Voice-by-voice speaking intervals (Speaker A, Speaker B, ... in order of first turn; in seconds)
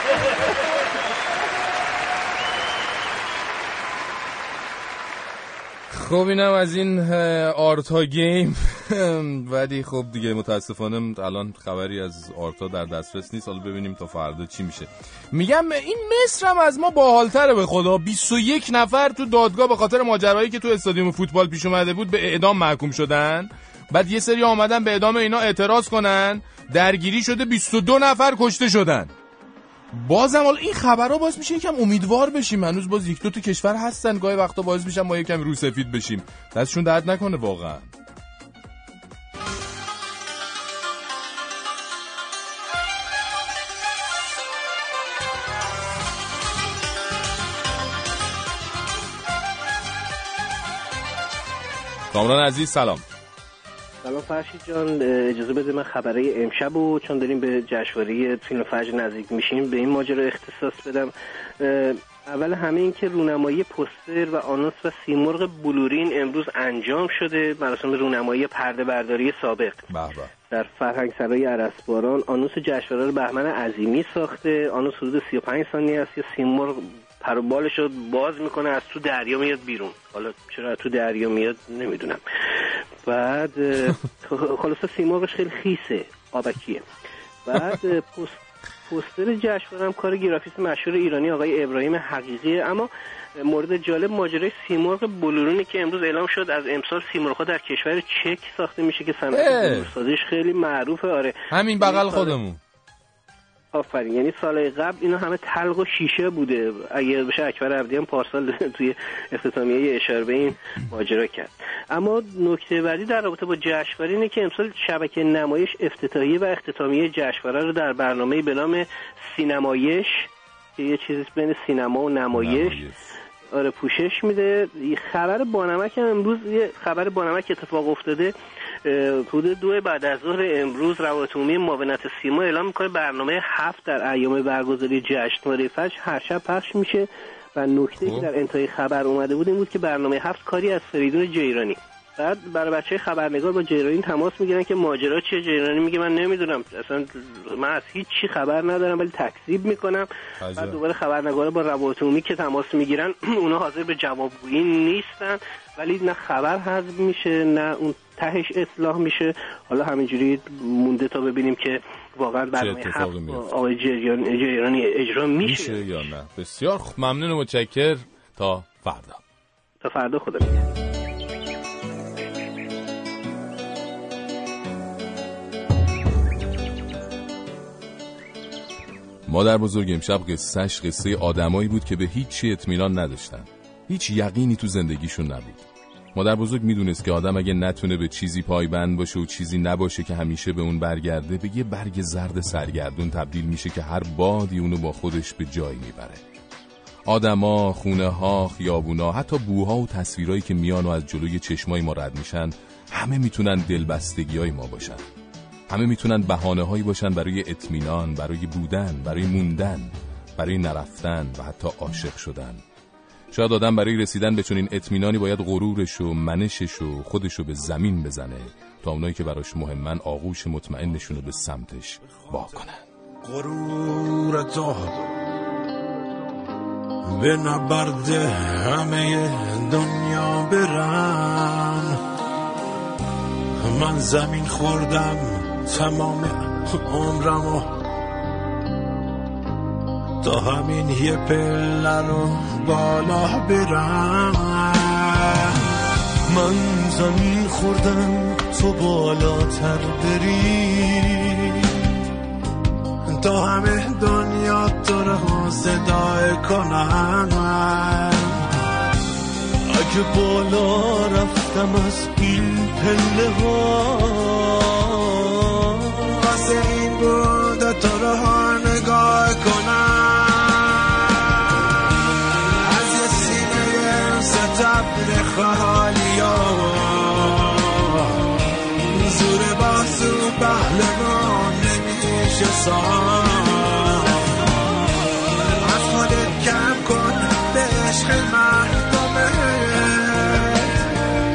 Speaker A: 5.9-29.1, 29.9-37.9, 52.1-53.0, 69.9-70.3, 99.3-99.9, 101.5-102.6, 122.3-123.0, 138.0-138.3, 150.4-150.8, 162.6-163.4, 165.4-169.2, 179.3-196.2, 197.1-205.0, 205.7-212.6, 213.3-222.8
Speaker B: 54.0-69.8, 70.5-82.2, 83.1-86.8, 87.5-92.9, 93.4-102.4, 103.7-122.8, 123.5-128.3, 128.9-165.9, 169.8-170.6
Speaker C: 223.2-225.0, 227.1-231.9, 233.6-237.7, 240.2-245.6, 253.1-258.4, 266.0-271.0, 272.6-278.0, 278.9-284.5, 285.5-290.9
Speaker D: 247.4-250.3